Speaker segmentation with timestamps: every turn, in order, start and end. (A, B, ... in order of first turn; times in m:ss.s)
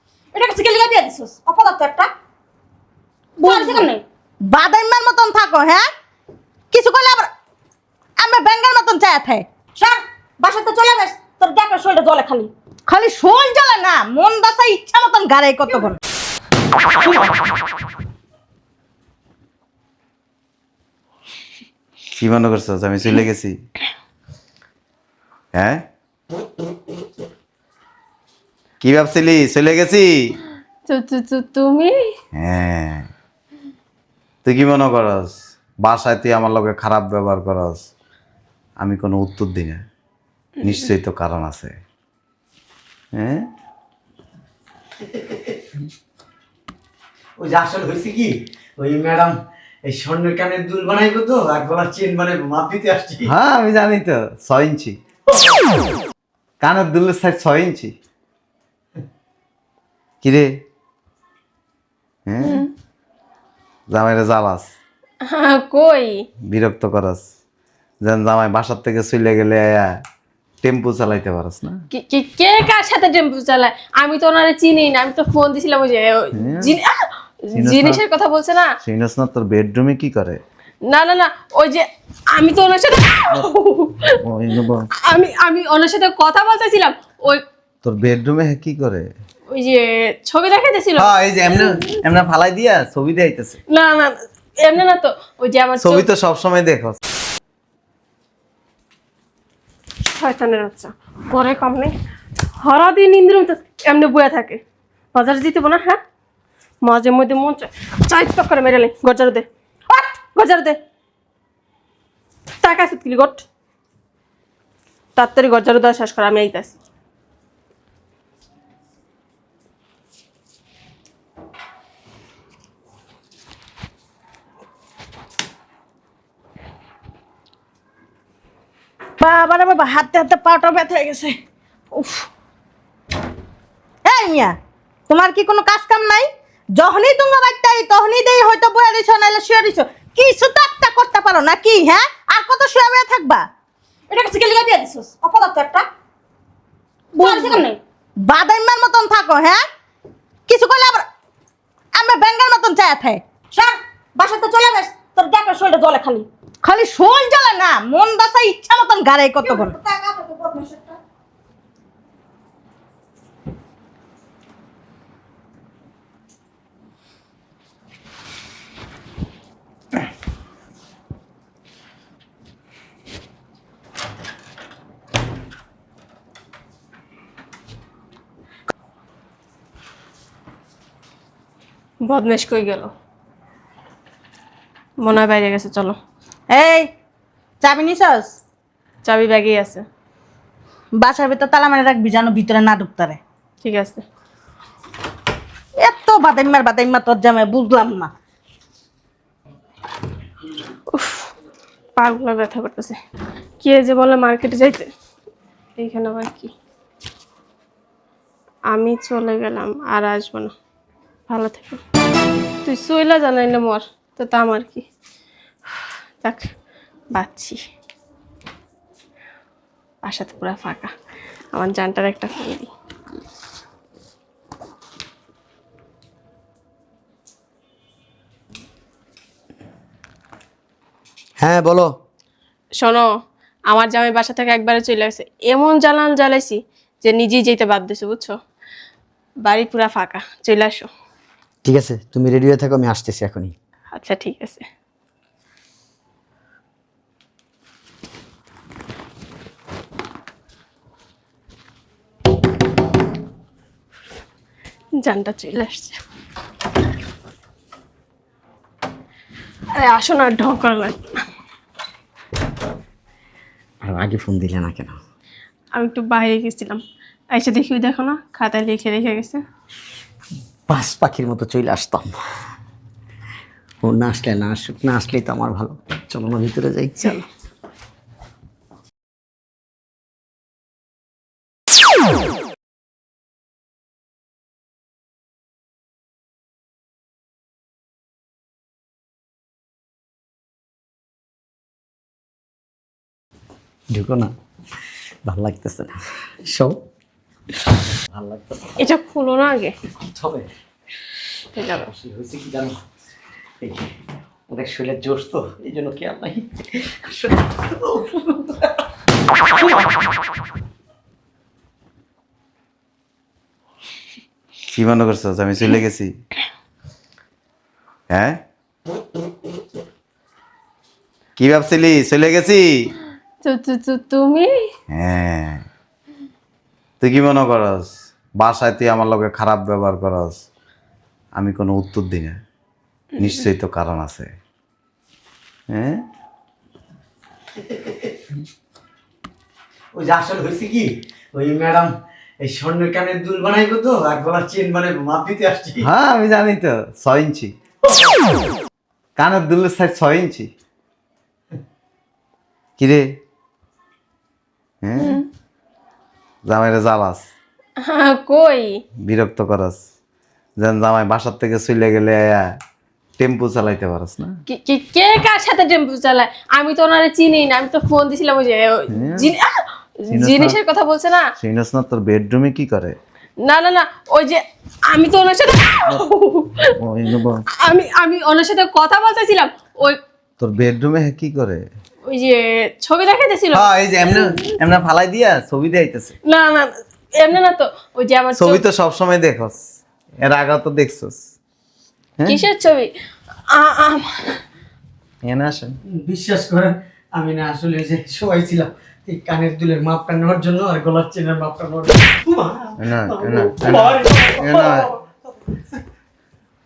0:00.3-0:02.1 A
0:03.4-0:03.9 B
0:03.4-0:04.0 A
0:04.4-0:05.9 B
0:06.7-0:07.3 B
0:08.2-0:09.5 B
0:09.8-0:12.5 A
0:12.9-0:16.0 B
0:22.2-0:23.6 C
0:25.5-0:25.8 C
0:28.8-0:30.3 C
0:30.9-0:31.9 D
0:32.3-0:33.1 C
0:34.4-0:37.8 C
0:38.8-0:39.8 C
0:40.6-0:41.7 C
0:43.1-0:43.4 C
0:45.1-0:45.6 E
0:47.4-0:49.3 E
0:49.8-0:53.3 E
0:53.3-0:55.0 C
0:56.6-0:57.9 C
1:00.2-1:00.6 C
1:02.3-1:02.6 C
1:03.9-1:04.7 C
1:05.2-1:06.2 D
1:06.5-1:07.2 C
1:08.0-1:10.0 C
1:10.6-1:11.8 C
1:11.9-1:18.7 D
1:16.3-1:16.7 C
1:17.5-1:18.0 C
1:18.8-1:20.4 C
1:20.9-1:24.2 D
1:24.2-1:24.9 C
1:25.1-1:27.4 D
1:27.8-1:29.1 C
1:29.5-1:31.6 D
1:31.0-1:33.6 C
1:33.7-1:36.1 D
1:35.8-1:37.0 C
1:40.2-1:41.9 D
1:42.6-1:44.6 D
1:45.1-1:46.0 D
1:46.8-1:49.5 D
1:50.3-1:50.8 D
1:52.6-1:53.4 D
1:55.2-1:56.8 D
2:09.2-2:11.4 B
2:11.9-2:12.3 B
2:14.0-2:14.6 B
2:15.1-2:23.5 B
2:24.1-2:25.9 A
2:27.1-2:27.8 A
2:27.2-2:27.7 B
2:28.2-2:29.6 B
2:30.5-2:31.1 B
2:31.9-2:33.2 B
2:33.5-2:36.3 A
2:36.6-2:39.8 B
2:39.4-2:41.0 A
3:02.0-3:02.9 D
3:05.0-3:06.0 D
3:06.5-3:06.9 B
3:07.6-3:08.3 B
3:09.0-3:09.8 D
3:11.0-3:13.2 B
3:13.6-3:14.0 D
3:15.8-3:18.1 B
3:20.9-3:21.3 D
3:22.0-3:23.0 D
3:23.6-3:24.9 D
3:25.8-3:26.5 D
3:28.7-3:30.5 D
3:31.3-3:31.8 D
3:32.6-3:34.8 D
3:36.2-3:36.5 D
3:37.1-3:37.6 D
3:40.0-3:40.9 D
3:41.5-3:42.7 D
3:51.4-3:51.9 E
3:52.8-3:53.1 D
3:53.7-3:58.3 D
3:59.4-4:00.9 D
4:01.6-4:03.5 E
4:03.9-4:04.6 D
4:15.0-4:16.0 D
4:19.7-4:21.2 D
4:23.8-4:25.0 E
4:25.8-4:26.8 D
4:27.3-4:29.4 D
4:30.7-4:32.2 E
4:33.8-4:37.2 E
4:53.9-4:54.3 E
4:55.2-4:56.8 E
4:58.1-4:58.8 E
4:58.8-4:59.8 D
5:00.0-5:00.5 E
5:01.5-5:01.9 D
5:01.9-5:02.8 E
5:03.6-5:03.9 E
5:04.5-5:08.7 E
5:09.5-5:10.0 E
5:14.7-5:16.1 C
5:18.1-5:18.4 C
5:21.4-5:22.9 C
5:23.4-5:24.5 D
5:24.9-5:25.6 C
5:27.0-5:30.4 C
5:31.4-5:32.4 C
5:33.2-5:34.3 C
5:35.7-5:36.0 C
5:37.6-5:38.1 E
5:39.9-5:41.9 E
5:42.4-5:45.8 E
5:45.8-5:47.5 C
5:49.2-5:50.5 C
5:52.8-5:53.0 C
5:54.8-5:55.2 C
5:55.0-5:55.2 D
5:56.4-5:57.3 C
5:57.8-5:58.8 D
5:59.0-5:59.8 C
6:00.6-6:02.5 C
6:03.2-6:04.4 C
6:04.5-6:11.2 D
6:08.9-6:09.3 C
6:10.1-6:10.6 C
6:11.4-6:13.0 C
6:13.4-6:16.7 D
6:16.8-6:17.4 C
6:17.6-6:20.0 D
6:20.4-6:21.7 C
6:22.1-6:24.4 D
6:23.5-6:26.1 C
6:26.3-6:28.6 D
6:28.4-6:29.6 C
6:30.2-6:31.2 C
6:32.3-6:32.9 D
6:33.5-6:34.4 D
6:35.2-6:35.8 C
6:35.9-6:45.8 E
6:42.8-6:44.9 C